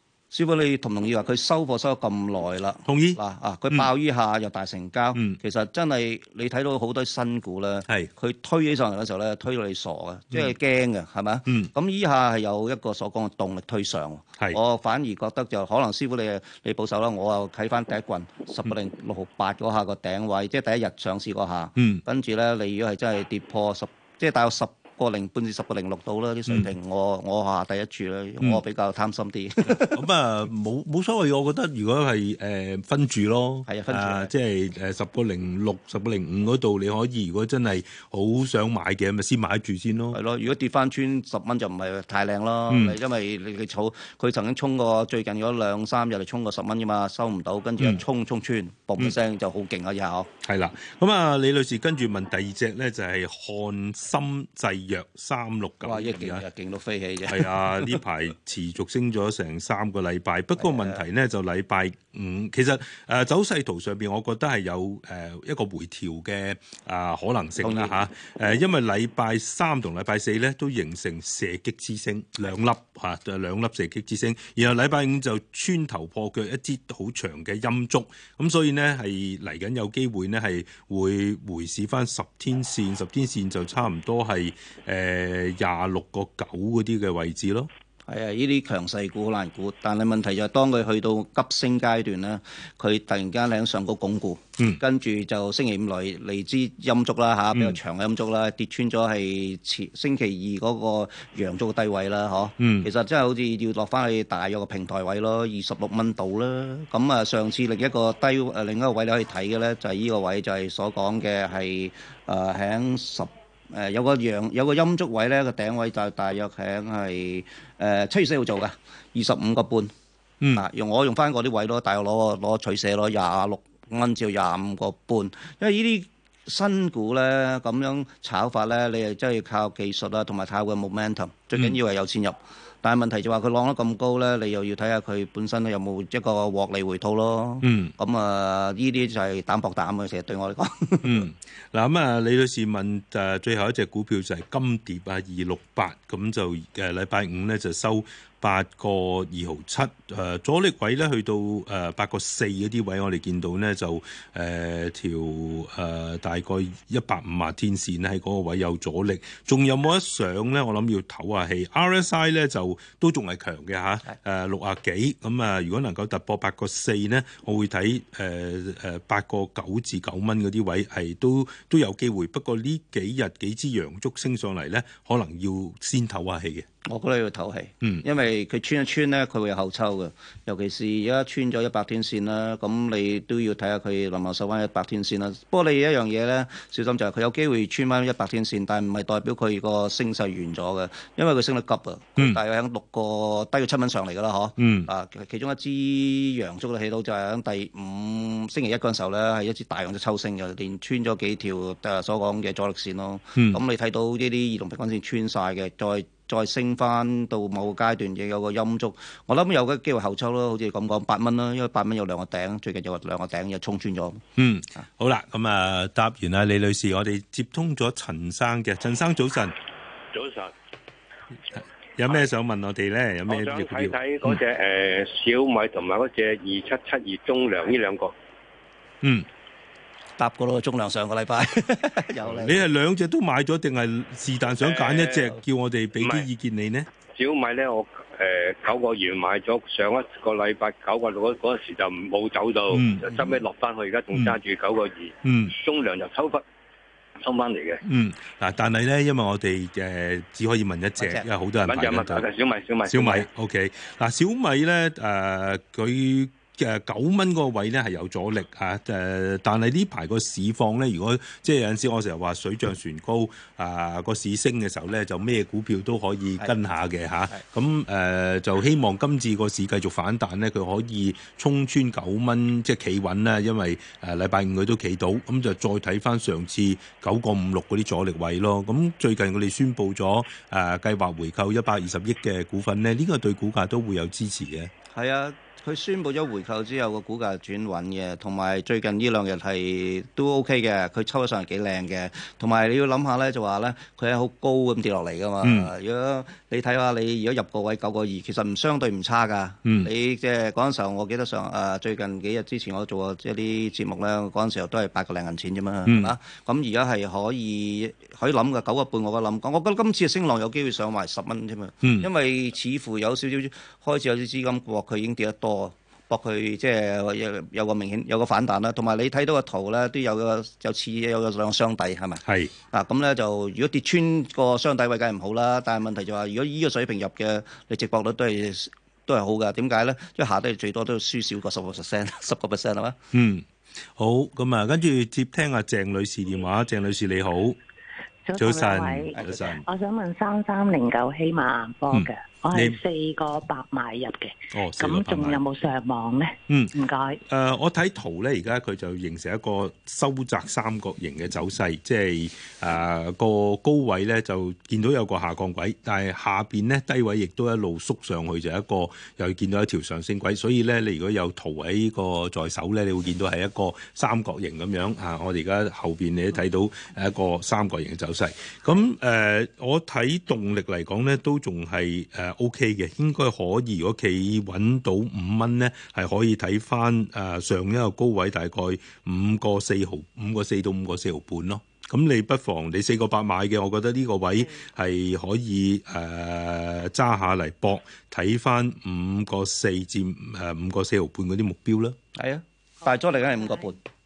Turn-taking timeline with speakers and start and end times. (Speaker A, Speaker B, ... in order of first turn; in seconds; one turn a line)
Speaker A: 0.3-30.0
Speaker B: 2.9-3.2
Speaker B: 5.1-5.4
Speaker B: 21.8-22.0
Speaker B: 29.6-40.2
Speaker A: 33.7-34.3
Speaker A: 40.1-50.3
Speaker B: 42.7-43.0
Speaker B: 50.4-56.5
Speaker A: 55.8-58.0
Speaker B: 57.3-87.7
Speaker A: 60.6-61.0
Speaker A: 67.6-67.9
Speaker A: 88.1-119.9
Speaker B: 97.5-97.8
Speaker B: 102.6-102.9
Speaker B: 120.4-120.7
Speaker A: 120.5-141.3
Speaker B: 137.6-137.9
Speaker B: 141.0-176.7
Speaker A: 176.8-214.2
Speaker B: 194.6-194.9
Speaker B: 214.4-219.6
Speaker C: 220.1-220.5
Speaker B: 221.6-224.0
Speaker C: 223.3-228.1
Speaker B: 229.0-229.3
Speaker A: 230.2-232.7
Speaker B: 232.2-236.9
Speaker C: 234.6-235.4
Speaker C: 236.0-236.3
Speaker C: 237.1-246.4
Speaker B: 242.7-243.1
Speaker B: 245.2-245.5
Speaker C: 247.2-247.8
Speaker B: 247.8-252.3
Speaker A: 251.0-251.3
Speaker C: 251.6-253.3
Speaker B: 252.9-284.7
Speaker A: 284.9-333.0
Speaker B: 295.4-295.7
Speaker B: 299.6-299.9
Speaker B: 305.9-306.1
Speaker B: 311.8-312.1
Speaker B: 322.3-322.5
Speaker B: 333.1-337.6
Speaker D: 338.3-347.2
Speaker B: 338.4-339.6
Speaker A: 339.1-339.5
Speaker B: 341.9-342.8
Speaker B: 344.5-345.4
Speaker B: 347.3-392.0
Speaker A: 392.1-393.8